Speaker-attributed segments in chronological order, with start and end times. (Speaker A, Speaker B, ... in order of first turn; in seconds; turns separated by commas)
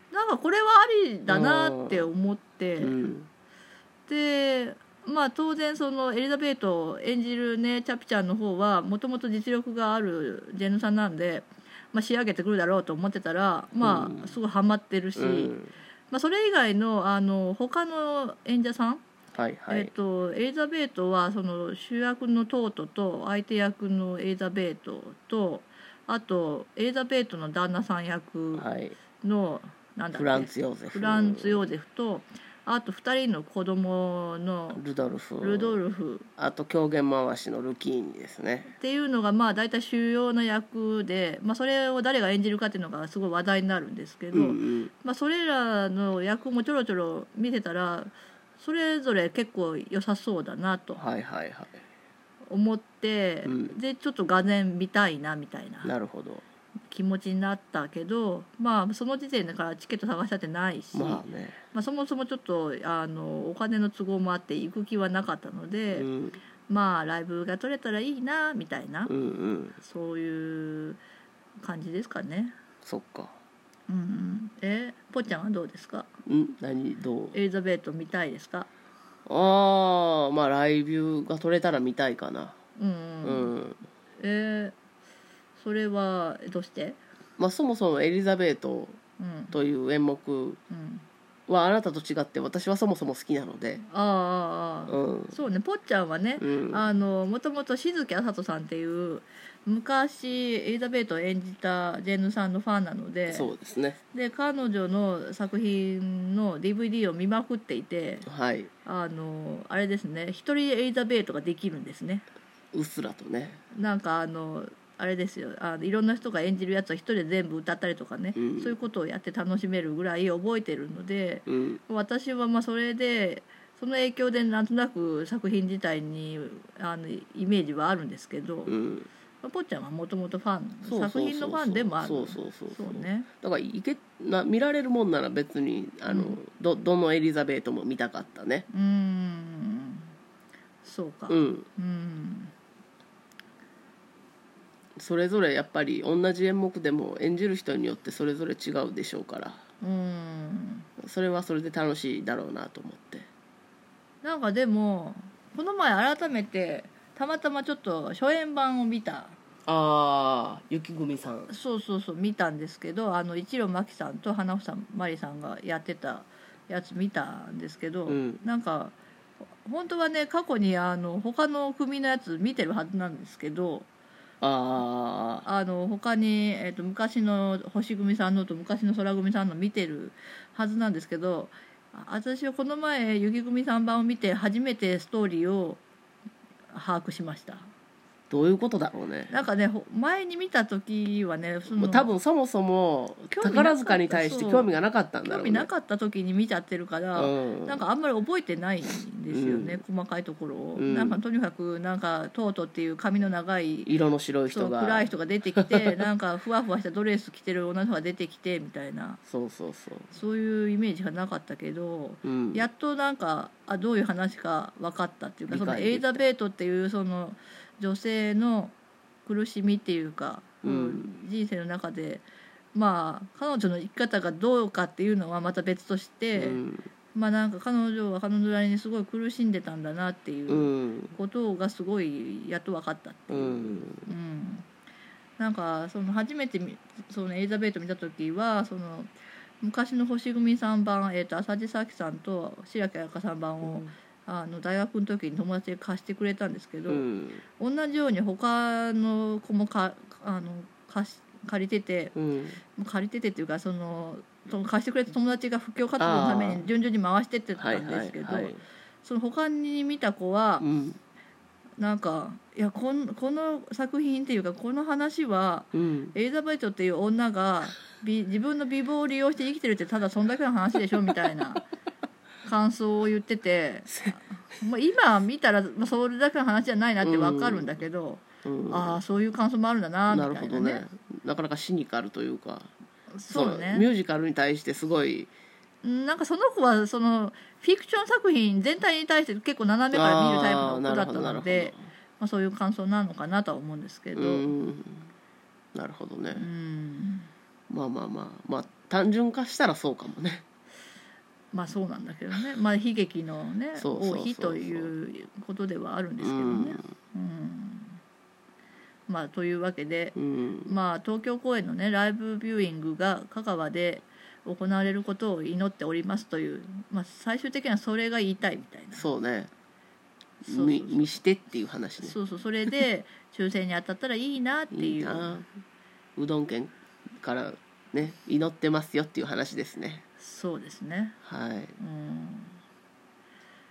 Speaker A: 0.1-3.0, Speaker B: 1.3-2.1, Speaker B: 2.8-3.3, Speaker A: 4.1-15.5, Speaker B: 13.8-14.3, Speaker B: 15.2-15.7, Speaker A: 16.1-19.0, Speaker B: 19.3-19.9, Speaker A: 19.7-28.6, Speaker B: 28.5-29.0, Speaker A: 29.2-34.8, Speaker B: 30.1-31.7, Speaker B: 34.7-35.8, Speaker A: 35.4-36.3, Speaker B: 36.4-38.7, Speaker A: 38.8-51.0, Speaker B: 44.3-44.9, Speaker B: 51.0-51.8, Speaker A: 52.5-55.9, Speaker B: 53.4-53.8, Speaker B: 55.8-56.4, Speaker A: 56.9-66.1, Speaker B: 60.9-61.6, Speaker B: 65.9-66.4, Speaker A: 66.7-69.1, Speaker B: 69.1-69.8, Speaker A: 69.8-71.0, Speaker A: 71.6-72.5, Speaker B: 72.8-73.3, Speaker A: 73.9-76.1, Speaker B: 76.2-77.4, Speaker A: 77.3-78.7, Speaker B: 79.3-82.5, Speaker A: 82.8-83.5, Speaker B: 83.2-83.8, Speaker A: 84.2-84.8, Speaker A: 85.6-87.0, Speaker B: 87.4-89.0, Speaker A: 89.2-89.5, Speaker B: 89.5-90.6, Speaker A: 90.7-91.0, Speaker B: 91.5-93.8, Speaker A: 93.8-103.5, Speaker B: 94.9-95.4, Speaker B: 96.4-96.8, Speaker B: 103.3-104.0, Speaker A: 104.1-108.3, Speaker B: 108.2-108.7, Speaker A: 108.8-112.2, Speaker B: 112.7-113.6, Speaker A: 113.7-128.7, Speaker B: 118.3-118.8, Speaker B: 121.5-121.8, Speaker B: 128.7-129.1, Speaker A: 129.4-133.3, Speaker B: 130.8-138.7, Speaker A: 136.1-136.4, Speaker A: 138.7-140.1, Speaker A: 140.8-142.5, Speaker B: 141.3-141.7, Speaker B: 145.0-149.6, Speaker A: 149.8-150.9, Speaker B: 151.0-153.3, Speaker A: 154.2-159.3, Speaker B: 159.7-161.5, Speaker A: 161.5-168.9, Speaker B: 168.1-168.4, Speaker A: 169.6-173.9, Speaker B: 174.4-175.4, Speaker A: 175.4-185.8, Speaker A: 186.7-187.7, Speaker B: 188.3-189.3, Speaker A: 189.3-192.1, Speaker B: 191.7-195.7, Speaker A: 193.3-203.9, Speaker B: 197.1-197.8, Speaker B: 199.3-199.8, Speaker B: 200.8-201.2, Speaker B: 203.8-206.1, Speaker A: 204.5-209.2, Speaker B: 209.3-210.1, Speaker A: 210.1-218.7, Speaker B: 212.2-212.7, Speaker B: 215.5-216.2, Speaker A: 219.2-226.6, Speaker B: 220.6-221.2, Speaker B: 226.3-226.8, Speaker A: 227.1-234.7, Speaker B: 230.5-231.2, Speaker B: 233.3-234.1, Speaker A: 235.4-247.1, Speaker B: 243.6-243.9, Speaker B: 246.9-247.4, Speaker A: 247.6-252.1, Speaker B: 252.1-252.6, Speaker A: 252.8-260.6, Speaker B: 256.0-256.6, Speaker B: 257.6-258.6, Speaker B: 260.6-261.0, Speaker A: 261.8-271.7, Speaker B: 265.7-266.1, Speaker A: 272.4-280.8, Speaker B: 277.0-277.8, Speaker B: 278.4-279.0, Speaker B: 280.1-282.7, Speaker A: 283.1-283.9, Speaker B: 283.3-285.3, Speaker A: 285.8-294.5, Speaker B: 289.9-291.8, Speaker B: 294.1-295.1, Speaker B: 295.7-296.5, Speaker A: 296.3-297.3, Speaker B: 297.7-300.4, Speaker A: 301.5-308.0, Speaker B: 303.7-304.9, Speaker B: 306.2-306.9, Speaker A: 309.1-310.1, Speaker B: 310.1-310.7, Speaker A: 310.6-319.1, Speaker B: 318.9-319.5, Speaker A: 320.4-321.2, Speaker B: 320.4-322.2, Speaker A: 322.0-325.3, Speaker B: 324.7-325.5, Speaker B: 326.1-330.0, Speaker A: 330.2-331.2, Speaker B: 331.2-331.8, Speaker A: 331.8-332.6